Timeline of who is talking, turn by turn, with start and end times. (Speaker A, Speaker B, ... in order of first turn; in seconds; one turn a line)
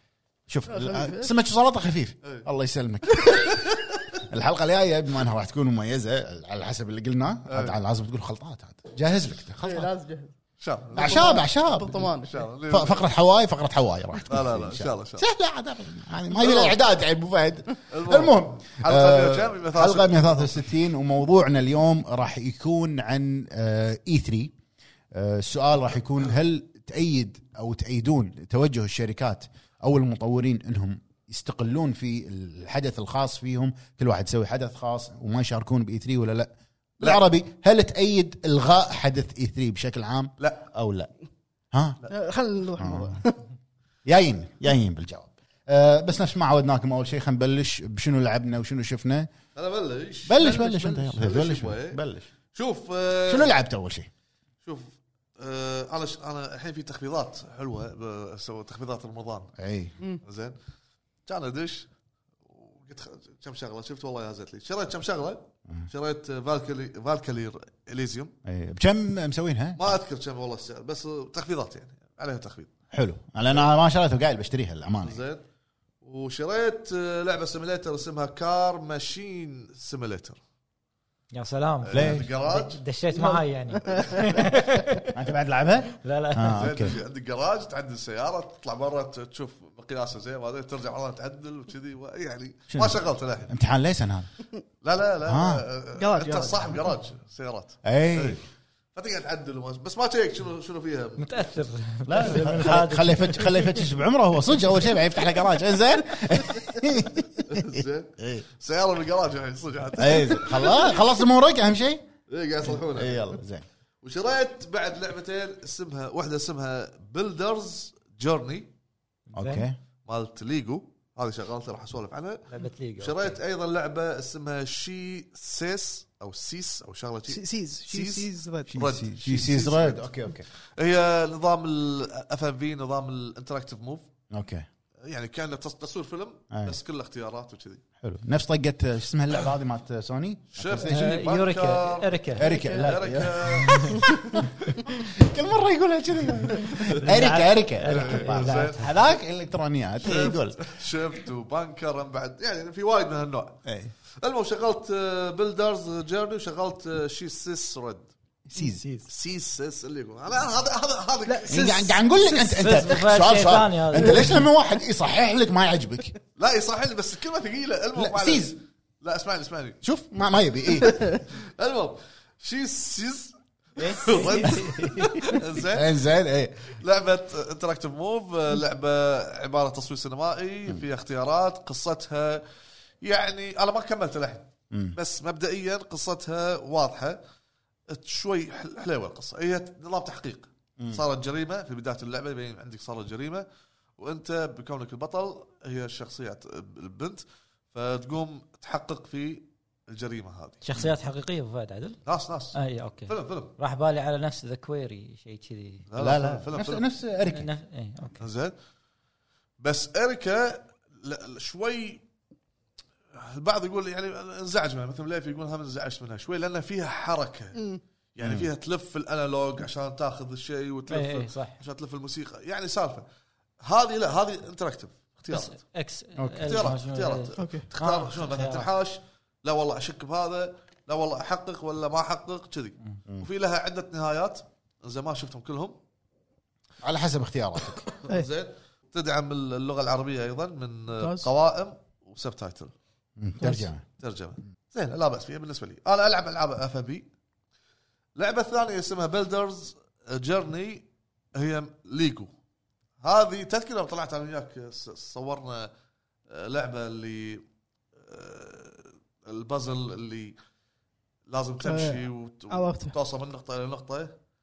Speaker A: 0.5-9.9
Speaker B: 0.7-1.3
Speaker C: 3.2-4.2
Speaker C: 7.5-7.8
Speaker B: 9.6-10.3
Speaker C: 10.6-11.5
Speaker B: 10.9-12.4
Speaker A: 10.9-12.1
Speaker C: 12.2-13.1
Speaker A: 12.7-24.5
Speaker C: 14.2-15.3
Speaker C: 16.3-16.8
Speaker C: 17.9-20.6
Speaker A: 25.1-41.1
Speaker C: 40.4-40.6
Speaker A: 41.7-42.0
Speaker B: 42.1-43.4
Speaker A: 42.8-43.2
Speaker A: 44.0-49.3
Speaker C: 49.5-50.5
Speaker A: 50.3-52.3
Speaker B: 50.4-51.2
Speaker C: 51.2-52.0
Speaker C: 52.5-53.5
Speaker A: 53.3-54.1
Speaker C: 54.6-59.5
Speaker A: 59.6-59.9
Speaker C: 60.2-60.5
Speaker C: 61.2-61.9
Speaker C: 62.4-68.3
Speaker A: 68.4-70.0
Speaker C: 69.8-72.7
Speaker A: 72.9-75.2
Speaker C: 75.0-75.4
Speaker C: 76.0-80.4
Speaker D: 81.3-85.2
Speaker C: 81.8-82.8
Speaker A: 81.9-82.3
Speaker B: 83.1-84.4
Speaker C: 83.8-84.4
Speaker A: 85.1-87.0
Speaker D: 86.0-86.9
Speaker C: 86.5-93.5
Speaker A: 92.7-94.3
Speaker C: 94.8-98.4
Speaker A: 95.2-95.6
Speaker B: 96.0-96.9
Speaker A: 97.8-98.4
Speaker C: 98.9-101.5
Speaker D: 101.2-103.9
Speaker A: 102.0-108.4
Speaker C: 107.4-111.0
Speaker A: 110.0-112.0
Speaker C: 112.3-113.2
Speaker A: 112.7-113.6
Speaker C: 114.0-118.7
Speaker D: 119.3-119.7
Speaker A: 119.3-119.8
Speaker C: 120.0-134.1
Speaker D: 122.5-123.4
Speaker B: 127.3-128.8
Speaker A: 128.7-130.5
Speaker A: 134.3-134.7
Speaker C: 135.0-137.8
Speaker A: 136.5-136.8
Speaker A: 138.0-141.1
Speaker C: 140.5-144.5
Speaker D: 140.8-142.9
Speaker A: 142.3-150.7
Speaker D: 143.5-144.0
Speaker D: 146.5-148.9
Speaker C: 147.8-148.8
Speaker C: 150.0-153.6
Speaker A: 153.6-153.9
Speaker C: 154.2-158.1
Speaker A: 158.5-159.0
Speaker C: 159.1-162.0
Speaker B: 161.3-161.8
Speaker A: 161.5-166.2
Speaker D: 162.3-164.4
Speaker C: 166.3-169.8
Speaker A: 167.9-168.5
Speaker A: 169.8-171.0
Speaker C: 171.2-175.9
Speaker D: 173.8-175.3
Speaker A: 175.7-176.8
Speaker C: 176.7-182.4
Speaker C: 183.0-187.2
Speaker A: 184.7-185.0
Speaker C: 187.9-193.4
Speaker C: 194.0-200.6
Speaker D: 200.6-202.0
Speaker C: 202.1-203.5
Speaker D: 202.5-205.8
Speaker C: 205.9-206.8
Speaker A: 206.0-207.5
Speaker D: 207.2-208.2
Speaker C: 208.2-208.5
Speaker C: 209.6-212.0
Speaker C: 213.1-217.6
Speaker B: 217.5-217.8
Speaker C: 218.1-223.1
Speaker A: 218.2-218.5
Speaker D: 220.9-221.6
Speaker C: 223.6-225.5
Speaker D: 225.3-228.7
Speaker A: 226.2-226.5
Speaker C: 226.4-235.8
Speaker B: 227.4-227.6
Speaker A: 236.8-237.8
Speaker C: 238.0-242.7
Speaker B: 241.0-241.3
Speaker A: 243.2-243.8
Speaker C: 244.0-247.1
Speaker C: 248.2-252.3
Speaker C: 253.0-255.7
Speaker C: 256.3-257.4
Speaker C: 258.0-260.4
Speaker C: 261.3-264.1
Speaker B: 261.6-262.9